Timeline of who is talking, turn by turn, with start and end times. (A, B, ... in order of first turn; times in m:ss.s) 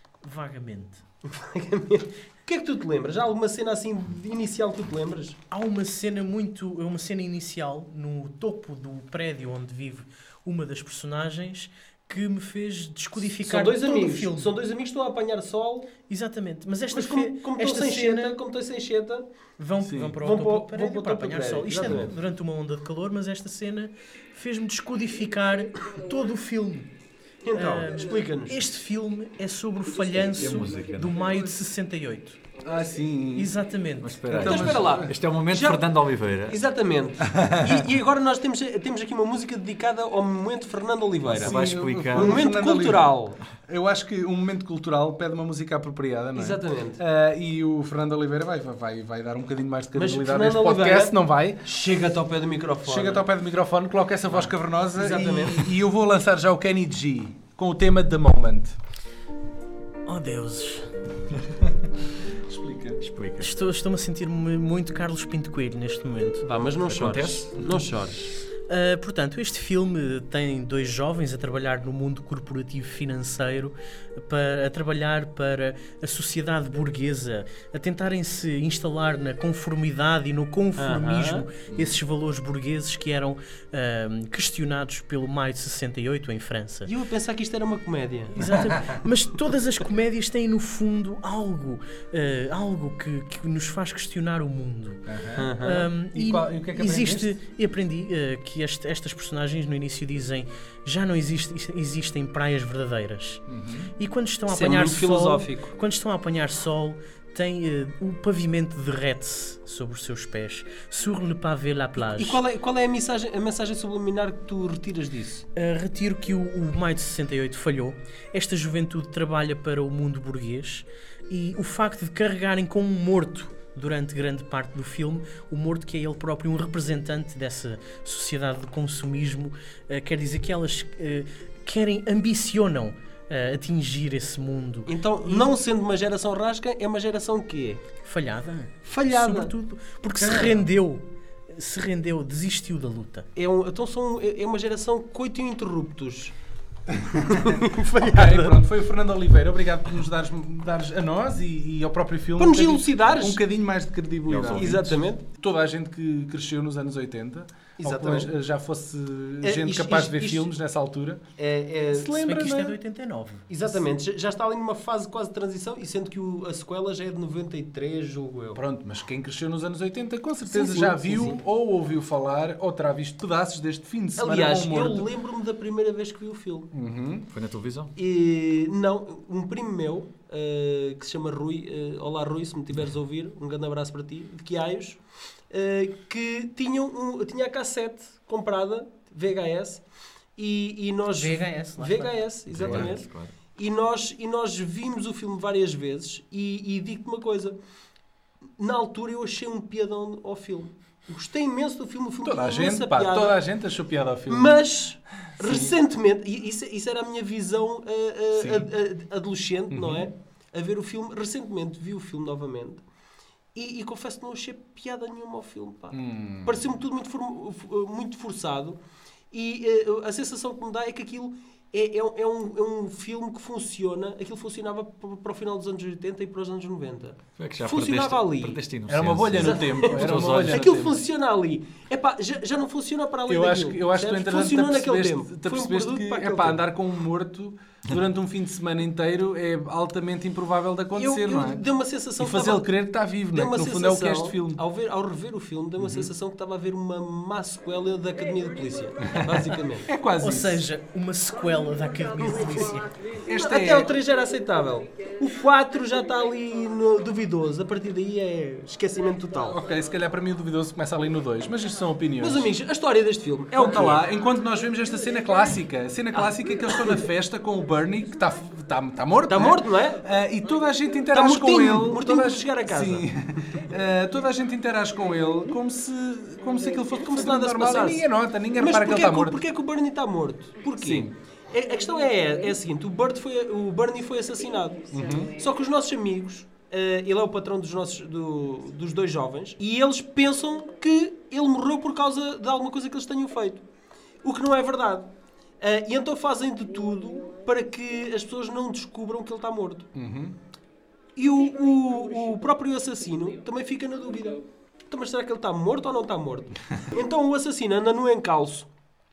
0:00.2-0:01.0 A
0:01.3-0:05.4 B
0:05.5-0:14.5 A
0:13.4-0:15.9 B
0:16.1-0:18.4 A
0:16.9-0:19.3 B
0:19.6-0:26.9 A
0:19.8-0:20.2 C
0:20.2-0:22.1 B
0:27.4-0:28.6 B
0:27.5-0:32.4 A
0:30.2-0:31.2 D
0:32.6-0:33.5 C
0:33.4-0:34.7 A
0:34.0-0:36.7 D
0:34.3-0:35.2 C
0:34.3-0:41.6 B
0:37.2-0:37.7 C
0:41.3-0:42.4 D
0:41.4-0:51.6 C
0:42.1-0:43.4 B
0:46.3-0:47.0 B
0:49.9-0:53.2 B
0:52.8-0:58.8 C
0:55.0-0:55.7 B
1:00.0-1:00.9 A
1:02.4-1:03.0 C
1:03.0-1:03.5 D
1:03.4-1:06.4 A
1:06.4-1:08.3 B
1:06.8-1:08.0 D
1:08.6-1:26.9 A
1:20.8-1:21.4 B
1:21.7-1:21.9 D
1:26.9-1:28.4 B
1:28.3-1:43.4 A
1:35.1-1:35.5 C
1:35.4-1:35.9 B
1:36.1-1:37.4 C
1:43.5-1:43.9 C
1:44.0-1:52.4 A
1:44.5-1:45.7 B
1:52.0-1:55.4 B
1:55.5-2:15.5 A
2:14.8-2:17.8 B
2:18.0-2:23.3 A
2:18.8-2:19.5 B
2:20.2-2:20.6 B
2:23.3-2:26.3 B
2:27.1-2:28.6 B
2:27.3-2:41.2 C
2:32.4-2:33.4 B
2:34.2-2:34.9 D
2:34.5-2:35.2 B
2:37.8-2:38.3 B
2:39.4-2:40.5 B
2:41.4-2:42.1 B
2:41.9-2:42.8 C
2:42.2-2:43.5 A
2:43.5-2:48.6 B
2:48.5-2:55.1 C
2:50.4-2:51.4 B
2:54.2-2:56.7 B
2:56.7-2:57.3 C
2:57.3-2:57.9 D
2:58.0-3:09.8 B
3:10.4-3:17.6 B
3:11.1-3:12.2 A
3:12.5-3:13.3 D
3:18.6-3:23.4 B
3:22.2-3:24.6 C
3:24.3-3:32.8 B
3:25.4-3:25.8 C
3:28.3-3:28.7 C
3:29.7-3:30.1 C
3:33.5-3:38.8 B
3:35.9-3:36.6 C
3:39.3-3:48.6 B
3:47.4-3:50.7 D
3:48.9-3:51.0 C
3:49.4-3:56.6 B
3:53.3-4:01.6 C
4:01.0-4:02.6 B
4:02.2-4:04.6 C
4:03.3-4:09.9 B
4:09.8-4:10.6 C
4:10.2-4:12.9 A
4:12.4-4:12.7 B
4:13.2-4:13.9 C
4:13.3-4:19.6 B
4:19.5-4:22.5 C
4:22.2-4:24.0 B
4:23.5-4:39.4 C
4:26.1-4:27.0 B
4:29.3-4:30.0 B
4:31.1-4:33.1 B
4:37.0-4:53.6 B
4:40.8-4:41.1 C
4:44.9-4:45.4 C
4:54.2-4:55.1 B
4:55.6-4:59.9 B
4:59.9-5:00.4 C
5:01.2-5:08.7 B